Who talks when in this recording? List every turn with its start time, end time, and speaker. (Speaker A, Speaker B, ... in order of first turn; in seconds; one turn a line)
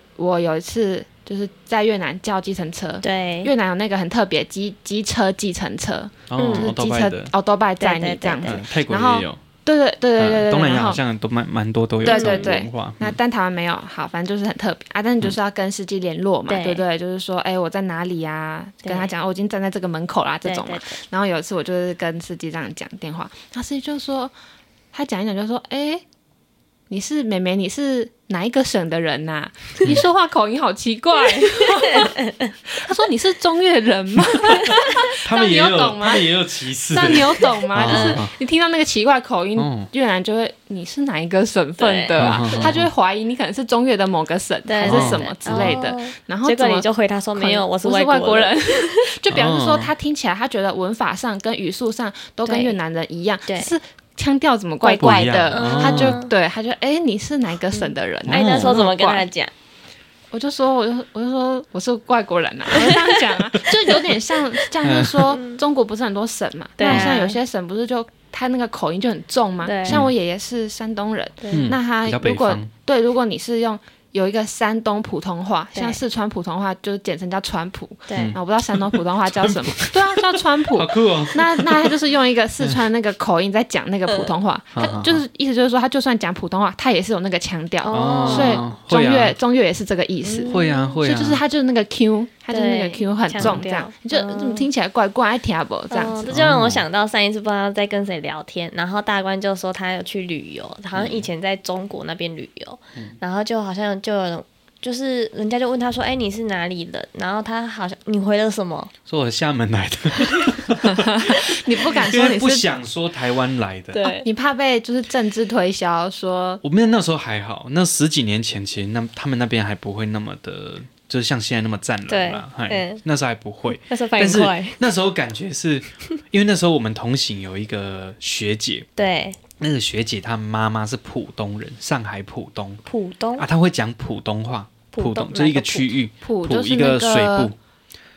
Speaker A: 0.2-11.0
Speaker B: 3.0-3.5
Speaker C: 6.3-7.3
Speaker B: 6.4-6.7
Speaker B: 7.8-8.6
Speaker C: 8.4-9.4
Speaker C: 10.2-13.2
Speaker A: 12.0-24.3
Speaker B: 12.1-12.6
Speaker B: 16.5-16.9
Speaker B: 18.8-19.1
Speaker B: 20.4-21.0
Speaker A: 24.9-26.0
Speaker A: 26.9-36.3
Speaker B: 31.3-32.5
Speaker C: 34.5-38.4
Speaker A: 36.9-59.3
Speaker B: 37.4-38.2
Speaker C: 39.6-39.9
Speaker B: 41.8-42.7
Speaker C: 42.2-42.9
Speaker B: 44.7-49.1
Speaker C: 44.9-45.8
Speaker C: 49.3-49.9
Speaker B: 52.5-52.8
Speaker B: 53.5-53.8
Speaker B: 54.8-56.3
Speaker C: 55.0-56.2
Speaker B: 57.7-59.5
Speaker C: 58.3-58.8
Speaker A: 60.3-96.2
Speaker B: 62.7-63.2
Speaker C: 63.5-63.9
Speaker B: 63.9-64.7
Speaker C: 64.8-65.3
Speaker B: 65.3-65.6
Speaker B: 66.8-67.4
Speaker C: 66.9-67.2
Speaker B: 69.6-70.0
Speaker B: 71.4-71.7
Speaker C: 71.5-72.7
Speaker B: 75.7-76.0
Speaker B: 78.1-78.4
Speaker C: 78.1-82.0
Speaker C: 84.8-85.2
Speaker B: 87.8-88.7
Speaker C: 87.9-89.4
Speaker B: 90.2-91.0
Speaker C: 90.5-91.4
Speaker B: 92.5-94.7
Speaker B: 95.9-108.9
Speaker C: 96.3-96.8
Speaker C: 100.9-101.3
Speaker C: 109.1-114.0
Speaker B: 110.2-110.5
Speaker A: 110.9-112.7
Speaker B: 113.9-114.3
Speaker A: 114.0-116.6
Speaker C: 116.6-128.9
Speaker B: 122.1-123.0
Speaker B: 123.7-124.8
Speaker B: 129.0-129.4
Speaker C: 129.6-132.8
Speaker B: 132.8-133.5
Speaker C: 133.4-137.6
Speaker B: 134.9-135.9
Speaker A: 136.2-137.5